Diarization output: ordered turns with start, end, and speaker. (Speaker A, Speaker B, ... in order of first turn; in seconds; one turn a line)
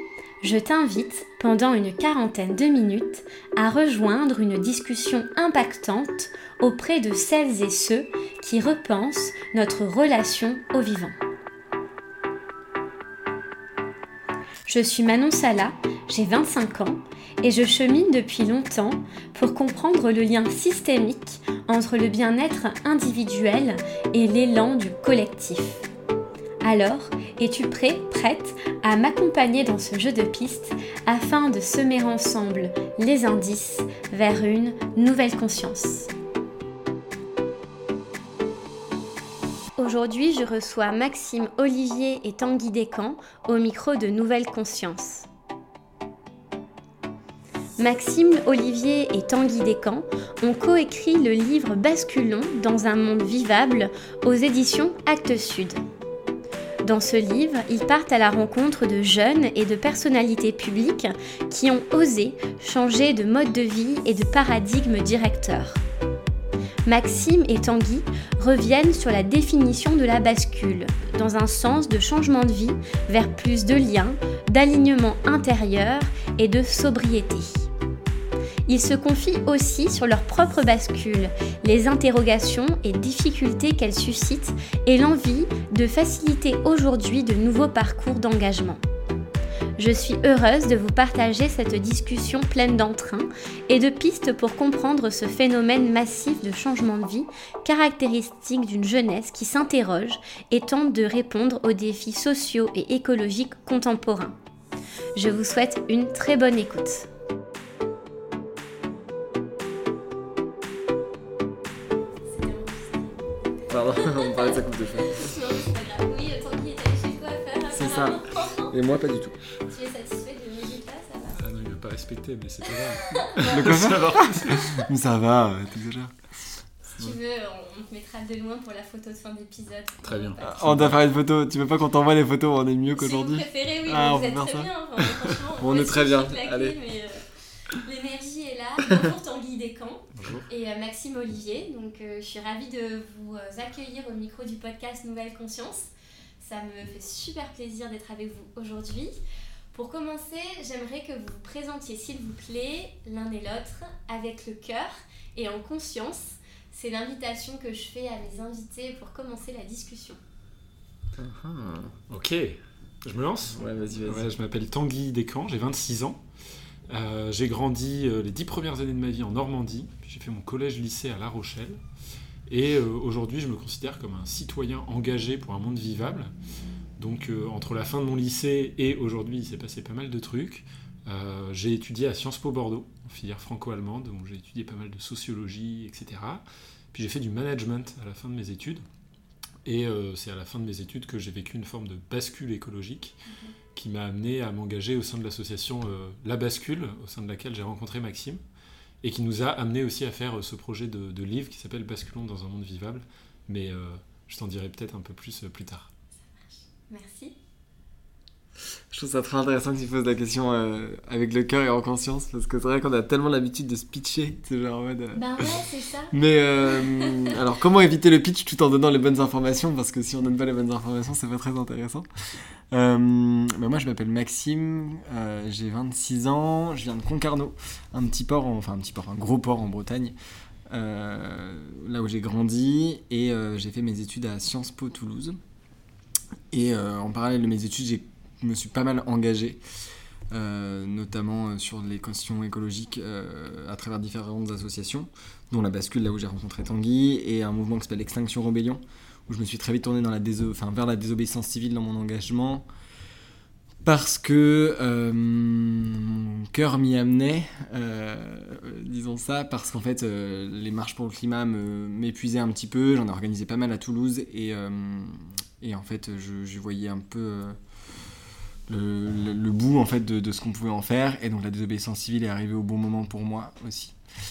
Speaker A: 0.4-11.2
Speaker A: 14.7-25.9
Speaker A: 26.6-36.1
Speaker A: 39.8-45.3
Speaker A: 47.8-55.8
Speaker A: 56.8-65.8
Speaker A: 66.8-77.7
Speaker A: 78.7-88.8
Speaker A: 89.8-104.3
Speaker A: 105.2-107.1
Speaker A: 112.2-113.2
Speaker B: 113.7-115.3
Speaker A: 113.9-118.8
Speaker B: 117.7-119.4
Speaker A: 119.6-121.4
Speaker C: 121.4-124.9
Speaker A: 123.1-123.6
Speaker B: 123.3-126.2
Speaker A: 126.8-130.6
Speaker C: 130.0-131.0
Speaker B: 130.4-134.7
Speaker A: 132.9-149.1
Speaker B: 135.6-136.7
Speaker C: 140.1-140.5
Speaker A: 149.7-160.2
Speaker B: 161.2-161.9
Speaker C: 162.1-166.2
Speaker B: 163.5-164.3
Speaker C: 166.9-171.8
Speaker C: 172.5-176.3
Speaker C: 177.0-188.8
Speaker C: 189.6-193.2
Speaker A: 193.3-193.5
Speaker C: 193.7-198.4
Speaker C: 199.0-205.9
Speaker A: 206.3-207.3
Speaker B: 208.9-215.5
Speaker A: 215.1-217.3
Speaker B: 216.1-222.1
Speaker B: 222.7-230.1
Speaker B: 230.7-235.4
Speaker B: 236.5-239.6
Speaker B: 240.3-252.7
Speaker B: 253.8-267.6
Speaker B: 268.7-273.9